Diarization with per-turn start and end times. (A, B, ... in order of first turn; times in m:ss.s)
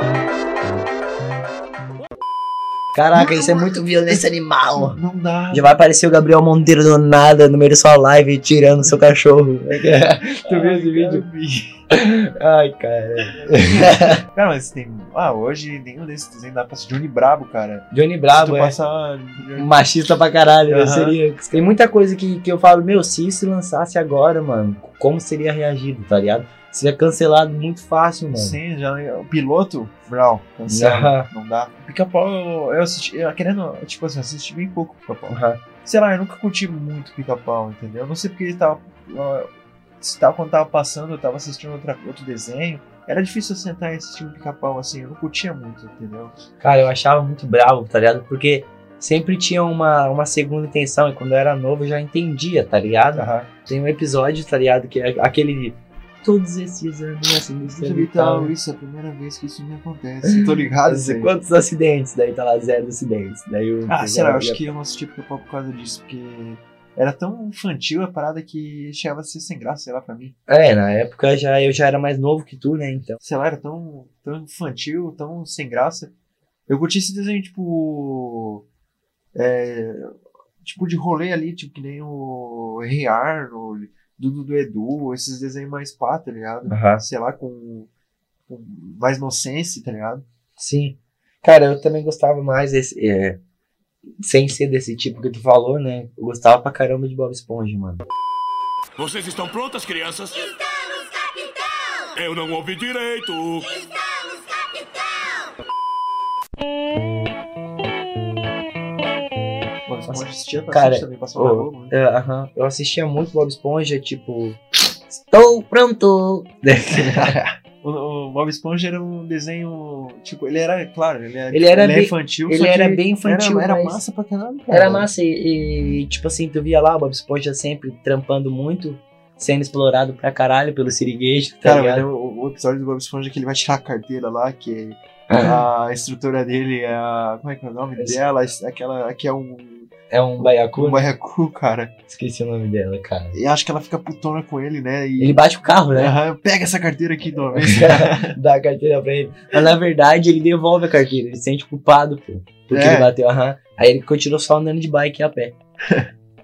0:02.9-0:05.0 A
0:03.1-0:04.2 B
0:04.7-0:05.7 B
0:05.5-0:11.2 A
0:10.2-0:11.7 B
0:11.9-0:14.2 A
0:13.3-0:19.7 B
0:17.9-0:18.7 A
0:19.6-0:28.6 A
0:20.7-0:21.2 B
0:28.3-0:46.3 B
0:30.7-0:31.3 A
0:35.3-0:35.6 A
0:46.6-0:58.5 A
0:53.1-0:53.5 B
0:57.7-1:01.3 B
1:00.2-1:04.6 A
1:03.9-1:10.3 B
1:10.5-1:13.2 A
1:13.2-1:16.1 B
1:16.7-1:18.6 B
1:19.3-1:27.9 B
1:26.7-1:27.0 A
1:28.5-1:30.2 B
1:30.6-1:33.4 A
1:34.2-1:38.0 A
1:39.0-1:40.4 C
1:42.2-1:43.7 C
1:49.9-1:51.9 B
1:50.1-1:57.4 A
1:56.9-2:05.1 B
2:01.5-2:04.0 A
2:04.7-2:12.0 A
2:11.6-2:21.9 B
2:15.3-2:15.6 A
2:20.1-2:21.0 A
2:22.1-2:23.4 A
2:23.3-2:25.4 B
2:25.2-2:26.1 A
2:25.9-2:28.4 B
2:27.6-2:35.5 A
2:32.7-2:33.1 B